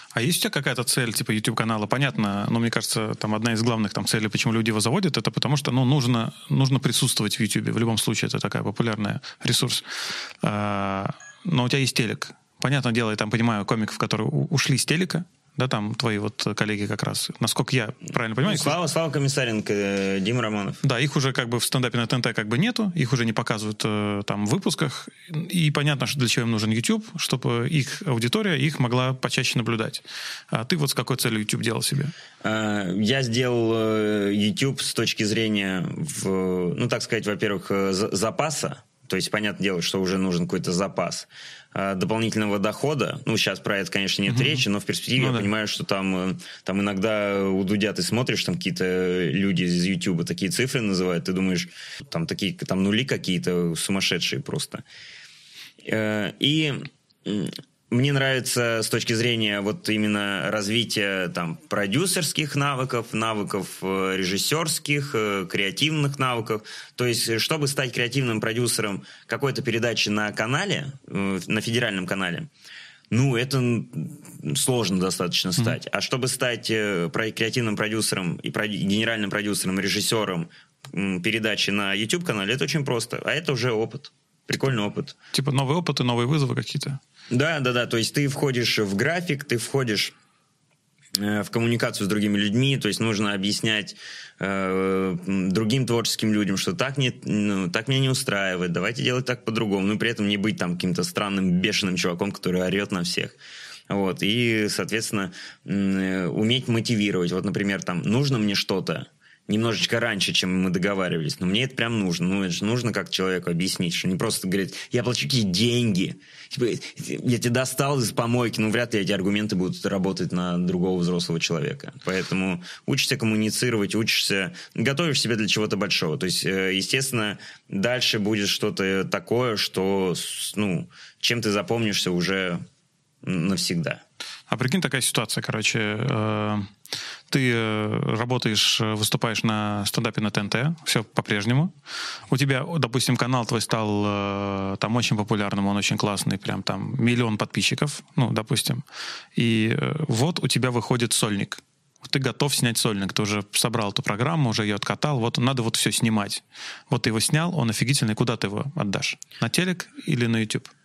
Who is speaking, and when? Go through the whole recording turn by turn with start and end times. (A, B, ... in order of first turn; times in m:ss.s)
0:00.1-0:18.8 A
0:18.4-0:20.8 B
0:20.8-0:32.1 A
0:32.4-0:54.8 B
0:44.3-0:44.6 A
0:45.2-0:45.5 A
0:55.8-1:12.5 B
1:13.1-1:25.2 B
1:25.3-1:27.0 A
1:27.3-1:30.1 B
1:31.2-1:43.4 B
1:43.9-2:12.6 B
2:13.2-2:14.0 B
2:14.5-2:16.7 A
2:17.3-2:21.7 A
2:22.3-2:28.8 A
2:29.4-2:40.7 A